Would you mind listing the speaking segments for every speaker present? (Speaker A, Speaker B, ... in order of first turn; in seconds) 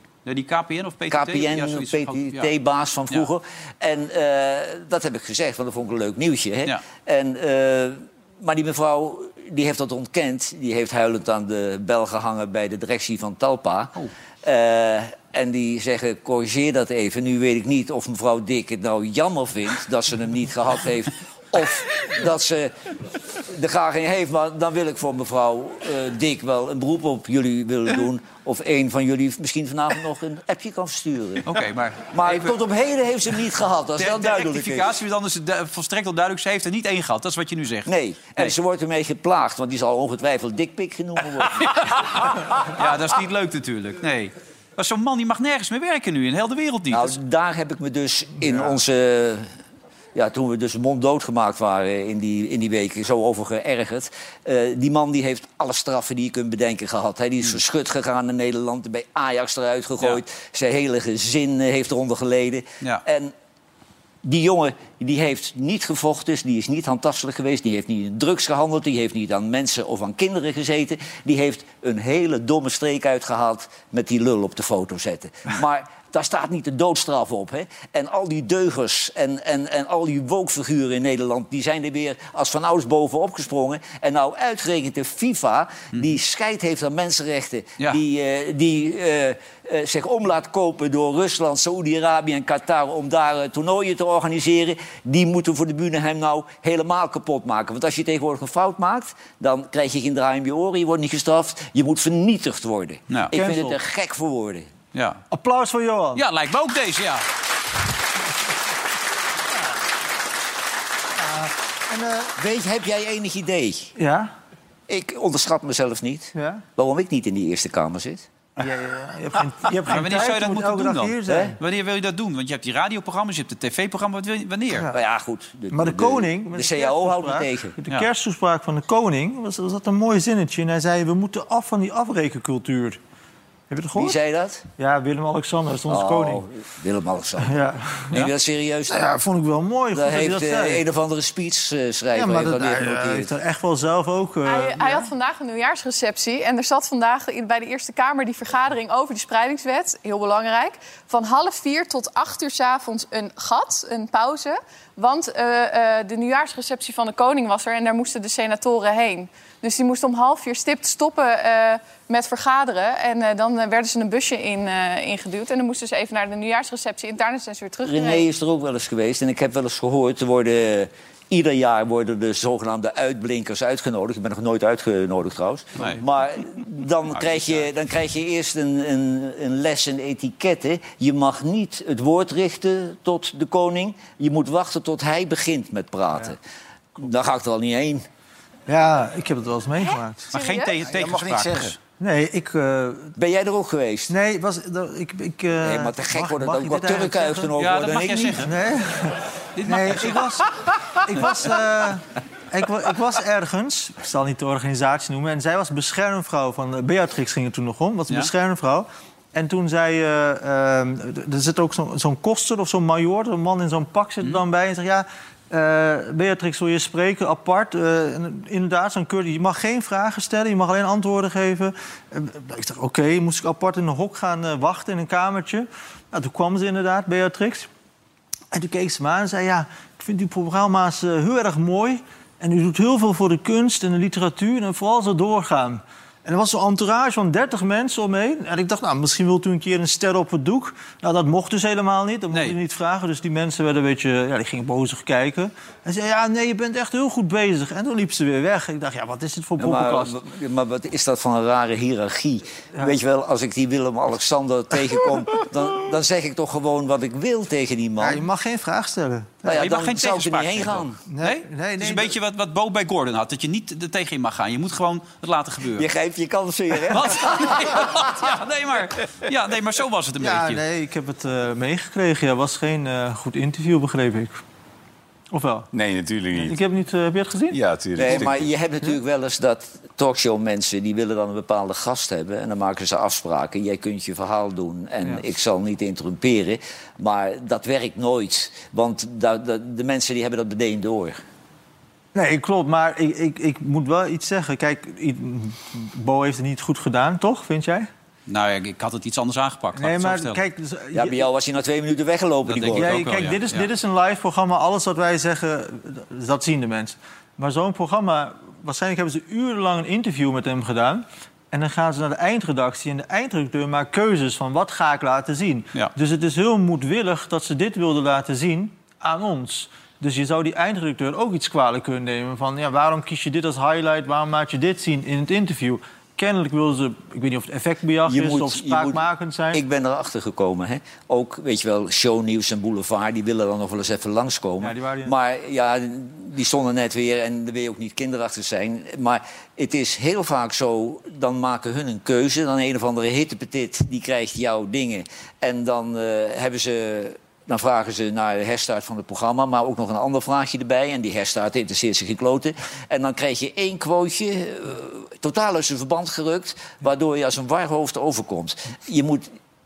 Speaker A: 0.2-2.5, 31.4-32.5, 34.0-38.5, 41.5-47.1, 104.9-105.2, 106.1-107.2, 119.8-124.9, 177.1-177.6, 190.3-191.8, 197.6-198.5, 199.6-200.5, 259.5-265.9, 266.9-270.6, 298.3-300.4, 302.5-303.7
Speaker B: 1.1-22.7, 23.3-31.6, 32.1-35.0, 37.9-41.9, 46.9-49.5, 50.1-63.3, 64.2-104.7, 112.3-113.9, 114.9-118.3, 121.3-121.5, 124.9-127.8, 133.9-134.6, 135.9-139.1, 139.9-143.3, 167.8-186.4, 187.0-188.1, 193.2-194.1, 195.6-198.4, 249.6-258.2, 259.4-261.0, 265.8-268.1, 277.9-291.2, 300.9-303.0, 328.0-359.3
Speaker C: 103.3-103.8, 105.3-106.2, 111.2-112.3, 114.0-114.3, 116.3-116.6, 118.6-121.6, 125.7-133.0, 133.7-134.2, 134.8-136.4, 137.4-138.1, 138.9-140.8, 142.1-145.0, 188.7-190.3, 192.0-193.1, 194.1-197.5, 198.4-227.7, 228.5-250.2, 258.0-259.5, 261.1-262.1, 270.2-274.4, 275.3-275.7, 276.4-278.2, 292.1-297.9, 299.8-301.2, 302.7-329.6, 334.6-335.1
Speaker D: 144.4-168.2, 190.3-190.7
Speaker E: 190.8-191.7, 275.7-276.6, 277.5-278.4